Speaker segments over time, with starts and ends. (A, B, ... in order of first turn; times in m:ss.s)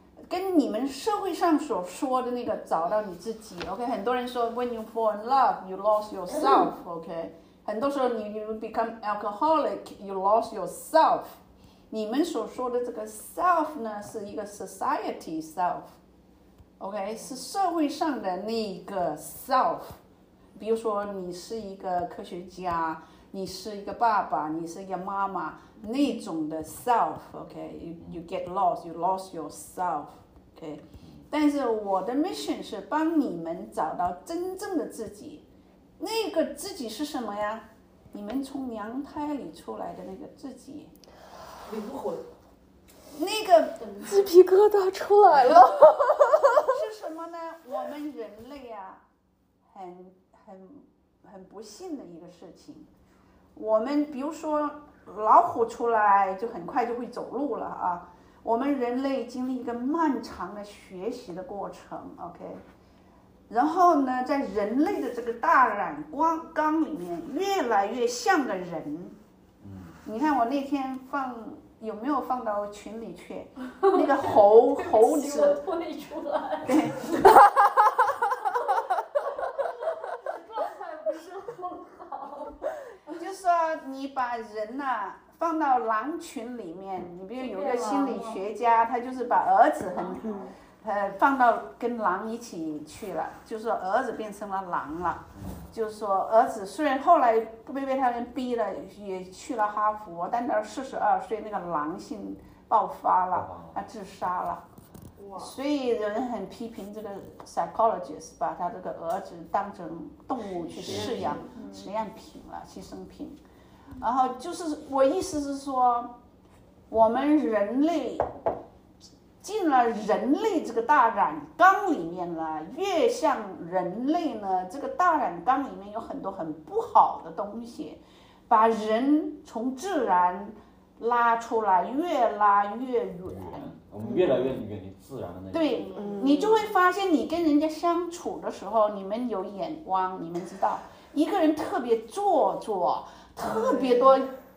0:00.3-0:11.4 A
0:11.9-0:16.0 A
0:16.8-0:20.0 A
0:20.5-0:35.4 A
0:25.8-0:26.2 B
0:36.0-0:40.9 A
0:41.6-0:42.2 C
0:43.1-0:44.0 A
0:43.8-0:44.4 B
0:44.0-0:46.7 D
0:45.3-0:49.0 A
0:49.7-0:52.9 A
0:53.5-1:02.6 A
1:03.5-1:09.2 A
1:09.6-1:10.0 E
1:10.0-1:15.6 A
1:13.8-1:17.3 B
1:16.6-1:17.5 A
1:19.2-1:22.7 B
1:23.2-1:44.6 A
1:27.4-1:28.4 B
1:29.9-1:30.2 B
1:30.2-1:30.5 D
1:35.3-1:35.7 E
1:43.3-1:43.8 E
1:45.2-1:45.6 C
1:45.4-1:53.4 A
1:50.6-1:51.6 C
1:50.8-1:51.4 E
1:51.6-1:51.9 D
1:54.0-1:56.1 A
1:56.9-1:58.3 A
1:59.4-2:13.7 A
2:13.3-2:15.9 E
2:14.0-2:14.4 D
2:15.5-2:24.3 A
2:15.8-2:16.2 C
2:16.0-2:16.7 D
2:23.4-2:24.2 C